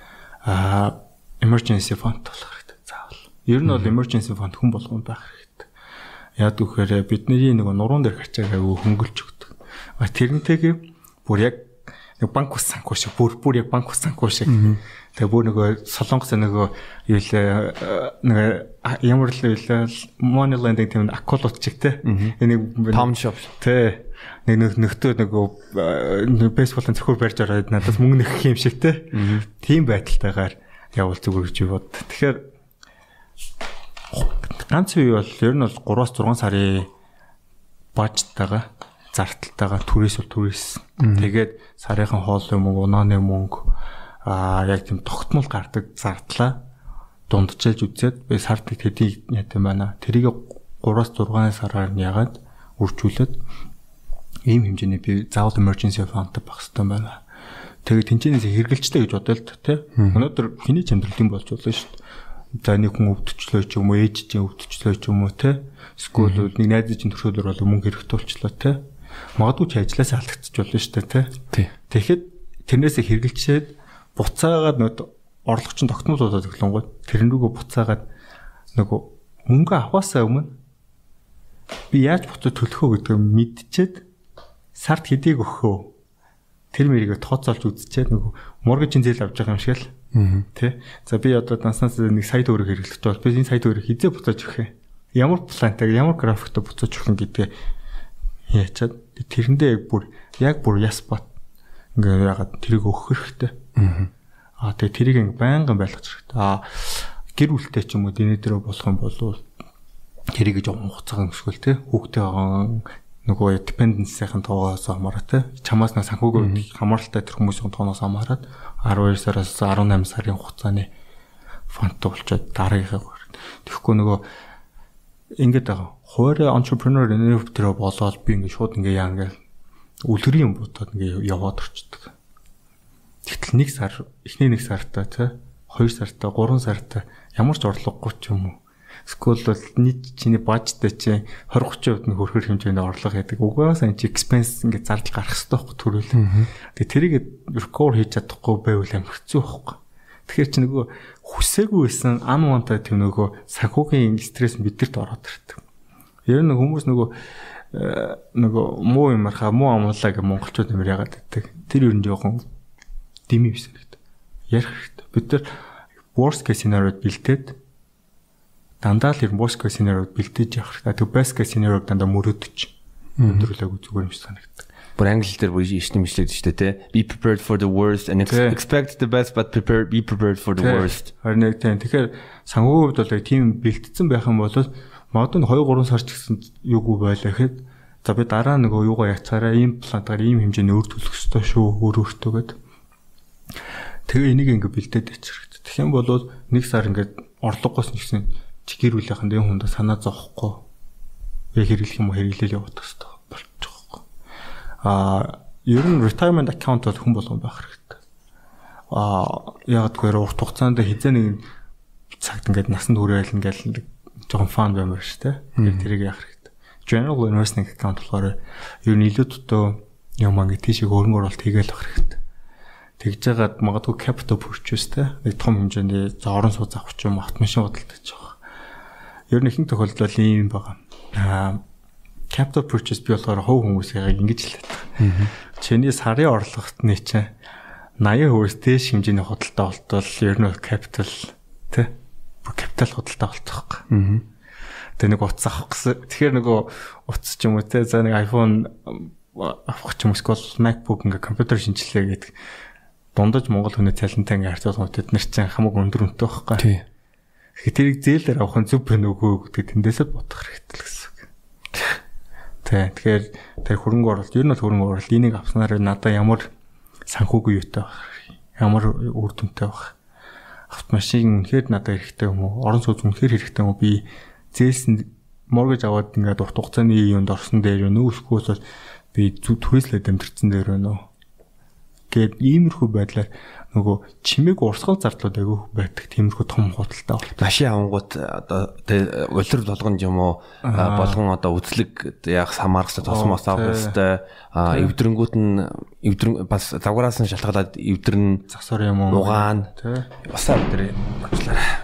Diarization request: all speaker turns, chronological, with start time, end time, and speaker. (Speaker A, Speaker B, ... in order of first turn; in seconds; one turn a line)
Speaker A: 0.5-5.7
Speaker B: 3.6-3.9
Speaker A: 6.4-32.4
Speaker B: 14.5-14.8
Speaker B: 22.1-22.4
Speaker B: 22.9-23.5
Speaker B: 29.1-29.4
Speaker A: 34.1-36.9
Speaker A: 38.0-43.7
Speaker B: 41.0-41.3
Speaker A: 44.2-46.6
Speaker A: 47.3-53.4
Speaker A: 54.5-57.2
Speaker A: 57.9-62.0
Speaker A: 62.6-68.8
Speaker B: 66.2-66.5
Speaker A: 69.4-71.4
Speaker A: 71.9-78.1
Speaker A: 78.7-80.5
Speaker A: 81.9-84.0
Speaker A: 84.8-85.9
Speaker A: 86.7-89.9
Speaker B: 90.1-90.5
Speaker A: 90.5-97.5
Speaker A: 98.5-101.3
Speaker A: 102.0-103.6
Speaker B: 103.8-104.1
Speaker A: 104.6-109.4
Speaker A: 110.3-120.9
Speaker B: 116.4-116.7
Speaker A: 121.7-124.3
Speaker A: 125.4-129.4
Speaker A: 130.1-132.1
Speaker A: 133.3-155.6
Speaker B: 146.1-146.5
Speaker A: 156.3-157.1
Speaker A: 157.7-162.4
Speaker A: 163.3-164.0
Speaker A: 164.5-165.5
Speaker A: 166.1-167.6
Speaker A: 168.8-172.7
Speaker B: 173.2-173.5
Speaker A: 173.2-174.7
Speaker B: 175.0-181.1
Speaker A: 178.3-178.6
Speaker A: 180.6-192.6
Speaker A: 194.1-200.6
Speaker A: 201.5-204.0
Speaker A: 204.8-208.0
Speaker A: 208.9-211.5
Speaker A: 212.2-222.2
Speaker B: 215.6-215.9
Speaker A: 223.0-228.4
Speaker A: 229.3-231.6
Speaker A: 232.3-235.0
Speaker B: 235.0-235.3
Speaker A: 235.5-237.3
Speaker A: 238.0-241.9
Speaker A: 242.4-243.9
Speaker B: 243.9-244.2
Speaker A: 245.0-252.3
Speaker A: 253.2-256.7
Speaker B: 256.6-256.8
Speaker A: 257.6-261.3
Speaker A: 262.6-266.5
Speaker A: 267.1-269.9
Speaker A: 270.7-278.6
Speaker A: 279.1-281.1
Speaker A: 282.1-287.4
Speaker B: 287.4-298.4
Speaker A: 290.6-291.2
Speaker A: 293.0-294.0
Speaker A: 298.5-300.1
Speaker B: 299.1-299.7
Speaker B: 300.3-301.6